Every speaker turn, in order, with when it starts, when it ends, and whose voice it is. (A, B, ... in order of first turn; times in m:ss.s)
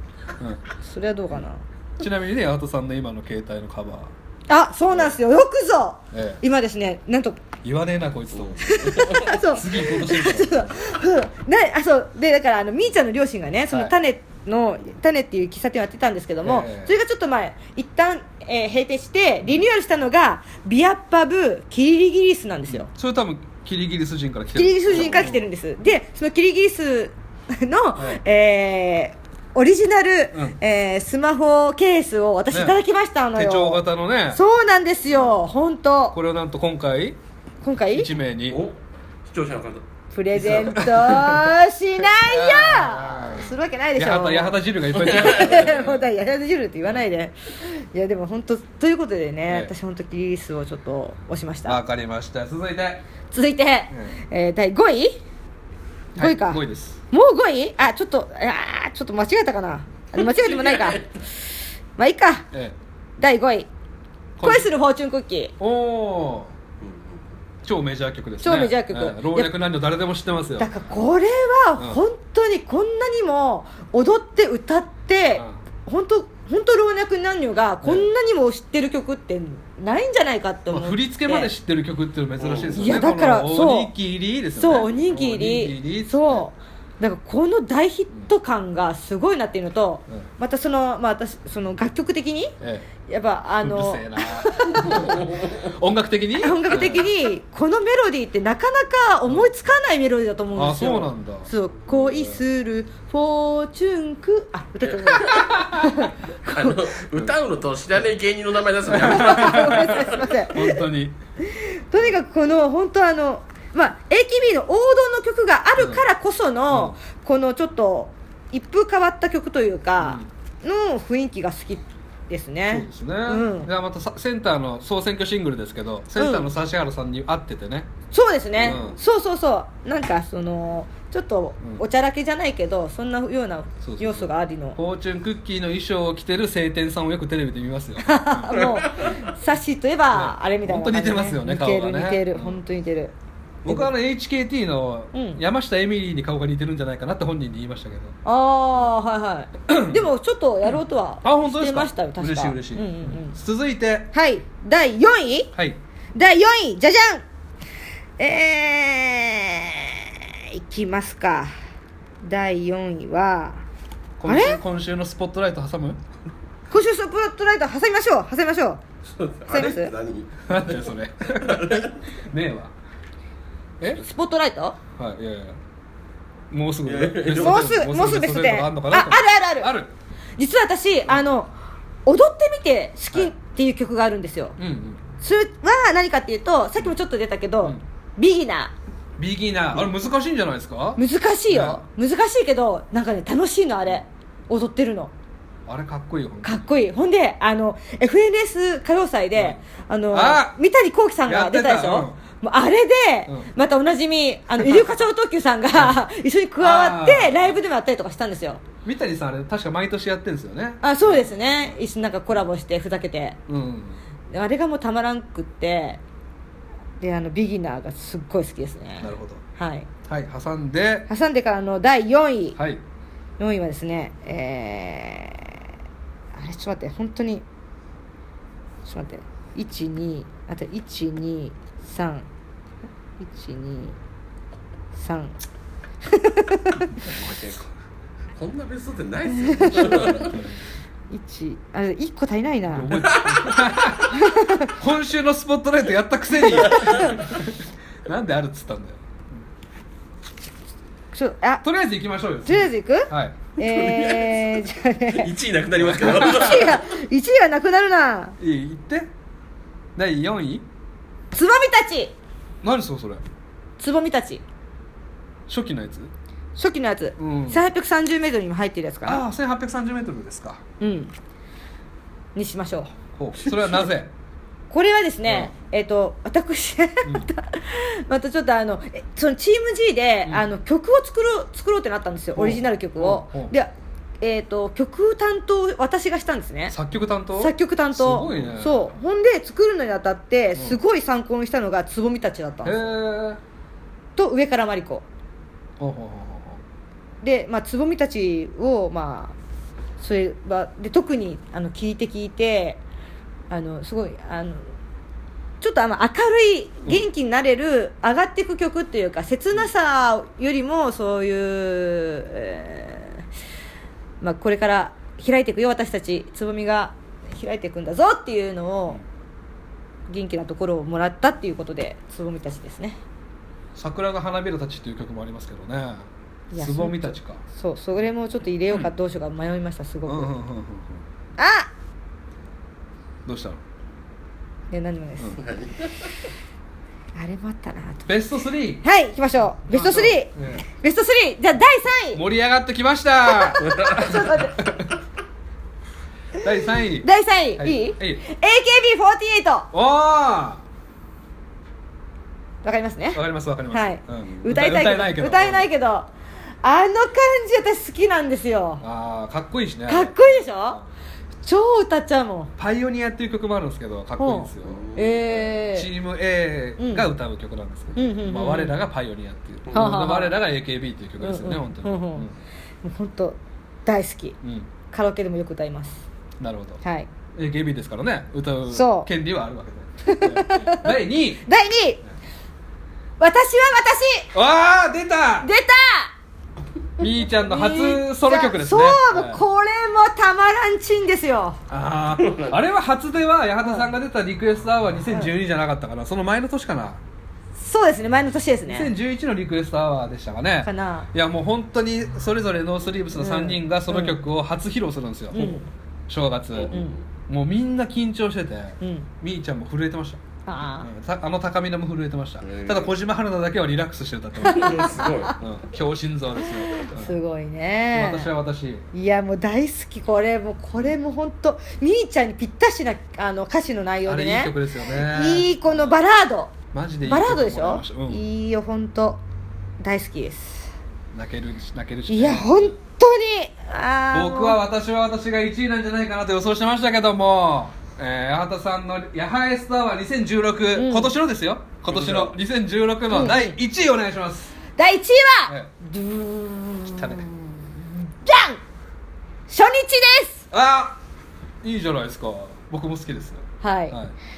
0:00.8-0:01.6 A
0:02.0-0:04.1 B
0:04.5-0:07.4 A
0:04.9-0:05.2 B
0:06.1-0:06.4 B
0:07.6-0:10.7 B
0:08.4-0:09.3 C
0:08.6-0:22.9 A
0:16.4-0:16.9 B
0:22.7-0:25.5 B
0:24.6-0:36.2 A
0:32.5-0:32.8 B
0:33.4-0:34.4 B
0:35.1-0:35.4 B
0:36.1-0:37.2 B
0:37.6-0:38.1 A
0:37.9-0:38.6 B
0:38.5-0:39.8 C
0:40.1-0:51.8 A
0:40.4-0:46.1 B
0:45.1-0:45.4 C
0:49.5-0:49.7 B
0:51.6-0:53.0 B
0:53.3-0:55.2 A
0:53.9-0:54.2 B
0:56.2-0:57.0 B
0:56.2-1:01.0 A
1:00.2-1:01.1 C
1:02.0-1:02.5 A
1:03.2-1:03.7 A
1:04.4-1:04.7 B
1:04.4-1:05.5 A
1:05.6-1:06.5 B
1:06.8-1:07.3 C
1:07.6-1:10.7 B
1:08.4-1:09.5 A
1:10.6-1:21.5 A
1:17.8-1:18.1 B
1:20.7-1:26.5 B
1:22.4-1:22.9 C
1:22.7-1:23.9 A
1:24.6-1:32.5 A
1:32.6-1:32.9 B
1:33.0-1:35.3 A
1:33.6-1:37.1 B
1:34.9-1:35.5 C
1:36.4-1:46.8 A
1:40.6-1:42.4 B
1:45.0-1:45.5 C
1:45.1-1:46.1 B
1:46.4-1:50.2 C
1:48.9-1:51.2 B
1:48.9-1:50.8 A
1:51.4-2:03.7 A
1:55.8-1:56.0 B
1:56.7-1:57.0 B
2:00.0-2:00.3 B
2:02.7-2:07.9 B
2:06.2-2:06.5 A
2:08.1-2:14.8 A
2:08.6-2:09.0 B
2:08.7-2:08.9 C
2:13.8-2:19.2 B
2:18.0-2:23.1 A
2:18.5-2:19.2 C
2:20.1-2:22.6 B
2:23.6-2:28.2 B
2:25.1-2:25.4 A
2:28.2-2:33.4 A
2:29.7-2:30.1 B
2:31.2-2:34.1 B
2:34.1-2:35.5 A
2:35.5-2:35.8 B
2:36.2-2:37.2 A
2:38.2-2:41.5 A
2:42.2-2:43.6 A
2:44.2-2:46.0 B
2:44.3-2:44.6 A
2:46.7-2:48.8 A
2:49.0-2:52.0 C
2:49.5-2:49.9 A
2:50.5-2:52.7 B
2:53.9-2:54.8 A
2:55.0-2:55.6 B
2:56.5-2:59.9 B
2:56.8-2:57.7 C
2:57.3-2:59.7 A
3:00.4-3:01.5 A
3:02.1-3:04.6 A
3:04.6-3:05.0 B
3:05.2-3:08.7 A
3:09.2-3:11.8 B
3:11.0-3:15.1 A
3:15.7-3:16.7 B
3:16.4-3:28.6 A
3:20.1-3:20.6 B
3:21.3-3:22.2 B
3:24.6-3:24.9 B
3:26.6-3:27.6 B
3:28.8-3:31.7 B
3:30.8-3:33.4 A
3:33.5-3:34.0 B
3:34.3-3:36.0 A
3:37.0-3:39.9 A
3:39.0-3:39.4 B
3:40.0-3:41.1 B
3:41.1-3:42.6 A
3:42.6-3:42.8 B
3:43.4-3:45.6 A
3:46.3-3:47.4 A
3:48.8-3:52.3 A
3:53.2-3:54.0 A
3:55.0-3:55.4 A
3:56.0-3:57.0 A
3:57.0-3:57.6 C
3:57.1-3:57.4 B
3:58.4-4:00.4 C
3:59.4-4:00.3 A
3:59.8-4:00.6 B
4:01.1-4:03.0 A
4:02.7-4:09.4 B
4:02.9-4:04.0 C
4:04.1-4:04.7 A
4:06.5-4:07.2 A
4:06.5-4:07.2 C
4:11.1-4:11.7 A
4:11.6-4:13.4 B
4:12.4-4:15.3 A
4:13.6-4:16.8 C
4:15.8-4:16.7 B
4:16.0-4:18.4 A
4:18.4-4:19.1 B
4:20.0-4:20.7 B
4:21.3-4:22.1 A
4:22.6-4:23.2 B
4:23.8-4:24.4 A
4:25.5-4:26.1 B
4:26.6-4:29.2 A
4:27.2-4:27.6 B
4:29.1-4:30.6 B
4:30.8-4:31.1 A
4:32.4-4:32.9 A
4:33.1-4:34.1 B
4:34.7-4:46.8 A
4:35.2-4:35.5 B
4:42.4-4:43.5 B
4:46.7-4:48.9 B
4:47.4-4:52.9 A
4:52.6-4:53.4 B
4:54.2-4:55.0 A
4:55.8-4:56.6 B
4:57.2-4:59.4 A
5:00.0-5:02.8 A
5:03.5-5:04.6 A
5:05.6-5:13.2 A
5:14.2-5:19.0 A
5:20.1-5:23.0 A
5:23.8-5:27.4 B
5:26.5-5:30.3 A
5:30.1-5:31.0 B
5:31.4-5:31.7 A
5:33.3-5:33.6 B
5:34.7-5:35.4 A
5:35.4-5:36.2 C
5:37.2-5:38.1 A
5:38.1-5:38.8 B
5:38.8-5:42.2 A
5:39.7-5:40.6 B
5:42.1-5:44.9 B
5:43.3-5:44.7 A
5:43.7-5:44.0 C
5:46.4-5:48.2 B
5:47.0-5:49.7 A
5:49.7-5:50.6 B
5:52.6-5:56.1 A
5:53.1-5:55.7 B
5:56.6-5:58.8 A
5:58.8-6:00.9 B
5:59.9-6:00.8 A
6:01.4-6:02.5 A
6:02.6-6:12.4 B
6:04.2-6:05.9 A
6:04.6-6:05.2 C
6:06.8-6:07.1 A
6:08.0-6:08.8 A
6:09.7-6:09.9 C
6:09.7-6:10.4 A
6:11.2-6:12.3 A
6:12.8-6:14.4 A
6:14.4-6:14.7 B
6:14.9-6:16.0 A
6:16.4-6:16.8 B
6:16.8-6:17.1 A
6:17.4-6:21.5 B
6:18.7-6:19.1 A
6:20.0-6:20.9 A
6:21.4-6:22.0 A
6:23.2-6:24.3 A
6:24.3-6:25.5 B
6:25.4-6:26.1 A
6:27.0-6:29.4 B
6:27.0-6:31.6 A
6:31.7-6:37.0 B
6:32.2-6:32.5 C
6:33.6-6:33.9 A
6:37.6-6:38.9 A
6:38.7-6:46.8 B
6:40.6-6:41.1 A
6:43.2-6:44.2 A
6:45.3-6:45.7 A
6:46.5-6:47.0 C
6:46.7-6:47.0 A
6:47.3-6:50.2 B
6:48.8-6:49.1 A
6:50.5-6:50.9 A
6:50.8-6:57.2 B
6:52.4-6:52.9 C
6:54.4-6:55.3 A
6:54.5-6:55.4 C
6:56.4-6:58.3 A
6:57.9-6:58.9 B
6:58.9-7:09.2 A
7:04.0-7:06.0 B
7:06.7-7:08.2 B
7:09.8-7:10.7 A
7:11.1-7:12.8 B
7:12.1-7:14.6 A
7:14.1-7:24.6 B
7:20.8-7:21.1 A
7:21.9-7:22.3 C
7:23.1-7:23.6 A
7:24.8-7:28.6 A
7:27.0-7:27.3 B
7:29.5-7:30.5 A
7:30.5-7:31.0 B
7:31.6-7:34.2 B
7:33.6-7:34.0 A